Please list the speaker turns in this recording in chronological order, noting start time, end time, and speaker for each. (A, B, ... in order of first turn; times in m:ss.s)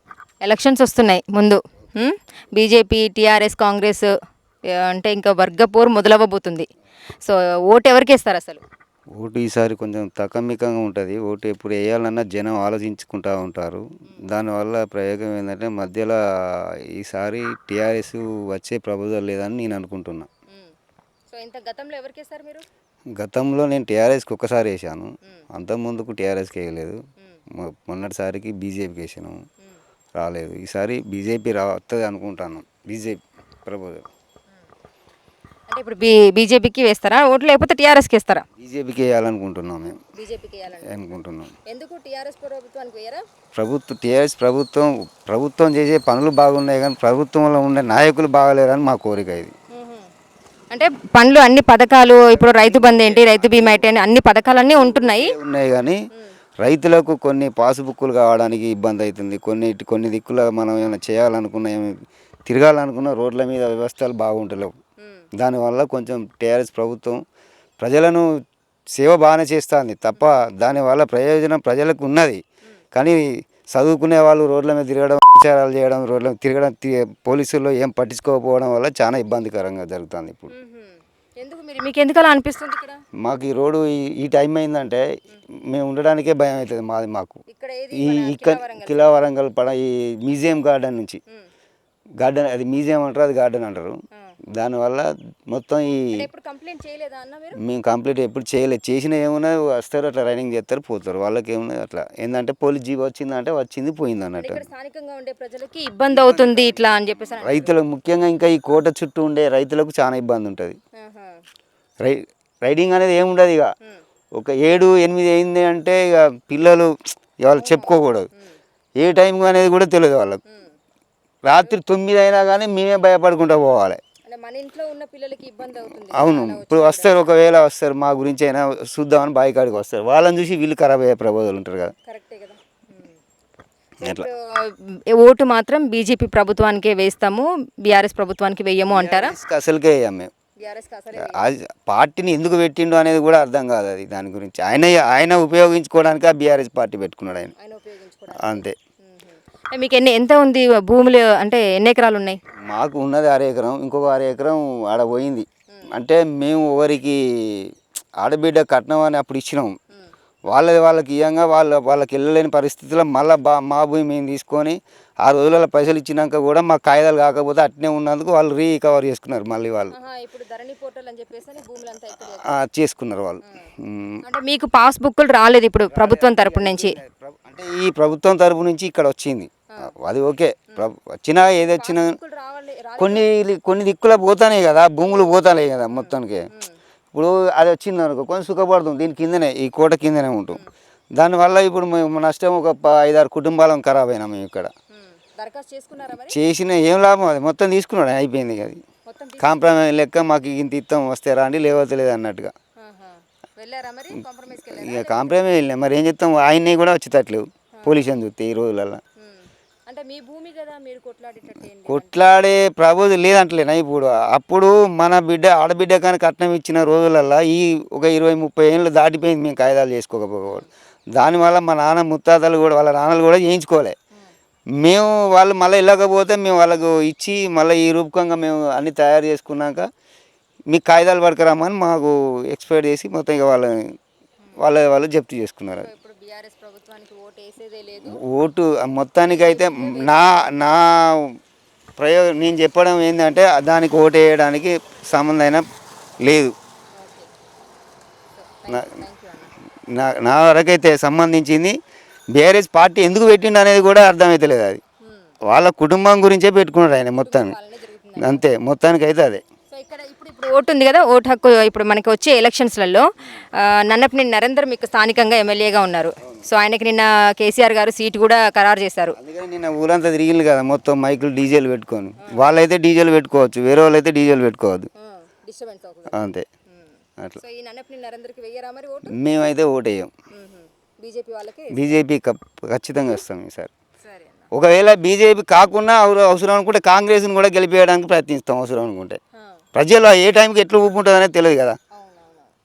0:00.4-0:04.1 A
0:04.7-0:06.7 A
0:07.2-0:08.6 A
0:09.2-0:20.3 B
0:20.5-0:20.7 A
0:21.3-0:22.6 A
0:23.2-0:27.0 B
0:27.6-0:29.4 B
0:30.2-0:34.0 B
0:35.7-0:38.4 A
0:38.6-0:40.0 B
0:40.1-0:41.0 A
0:40.8-0:41.5 B
0:41.7-0:43.2 A
0:43.5-0:49.5 B
0:49.7-0:50.1 A
0:50.7-0:55.3 A
0:52.2-0:53.9 B
0:54.7-0:56.0 B
0:56.6-1:01.9 B
1:02.5-1:04.7 B
1:05.0-1:05.3 A
1:05.4-1:07.2 B
1:07.8-1:08.3 B
1:09.0-1:12.4 B
1:12.9-1:20.5 B
1:20.5-1:23.0 A
1:23.2-1:25.1 B
1:25.6-1:27.4 B
1:27.5-1:29.2 A
1:27.9-1:31.2 B
1:32.2-1:34.0 B
1:34.5-1:36.2 B
1:36.1-1:37.6 A
1:37.6-1:44.6 B
1:44.4-1:47.8 A
1:46.1-1:50.8 B
1:51.0-1:51.4 A
1:52.0-1:53.7 B
1:54.3-1:58.3 B
1:57.6-1:58.6 A
1:59.0-2:00.4 B
2:00.5-2:00.7 A
2:01.4-2:04.0 B
2:04.2-2:07.3 A
2:05.8-2:11.9 B
2:12.0-2:13.2 A
2:14.0-2:14.3 B
2:14.0-2:19.3 A
2:18.9-2:20.3 B
2:20.6-2:21.4 A
2:21.2-2:27.5 B
2:27.6-2:32.4 A
2:28.3-2:28.7 B
2:32.7-2:39.8 B
2:40.5-2:49.9 B
2:49.9-2:52.5 A
2:52.2-2:54.2 B
2:54.2-2:57.0 A
2:55.9-3:02.2 B
3:01.7-3:03.3 A
3:03.0-3:06.5 B
3:05.0-3:05.3 A
3:05.9-3:06.8 A
3:07.1-3:10.6 B
3:11.1-3:14.7 B
3:14.9-3:16.4 A
3:16.3-3:18.8 B
3:19.1-3:19.8 A
3:19.4-3:22.5 B
3:22.8-3:25.5 A
3:24.7-3:29.0 B
3:27.7-3:28.0 A
3:29.2-3:32.2 A
3:31.8-3:43.9 B
3:44.8-3:49.8 B
3:50.7-3:53.8 B
3:54.6-3:55.9 B
3:55.8-3:58.2 A
3:58.0-4:01.4 B
3:59.2-4:00.4 A
4:02.0-4:05.6 B
4:06.2-4:06.5 B
4:07.0-4:07.3 A
4:08.4-4:09.5 A
4:09.9-4:11.8 B
4:12.3-4:14.8 B
4:15.0-4:15.3 A
4:15.4-4:17.6 B
4:17.2-4:18.5 A
4:18.2-4:19.4 B
4:19.7-4:29.2 A
4:29.1-4:34.9 B
4:35.0-4:39.2 A
4:36.1-4:36.4 B
4:39.1-4:40.1 B
4:40.3-4:42.0 A
4:41.7-4:43.7 B
4:44.0-4:44.5 A
4:44.5-4:49.2 B
4:49.7-4:51.8 B
4:51.9-4:52.5 A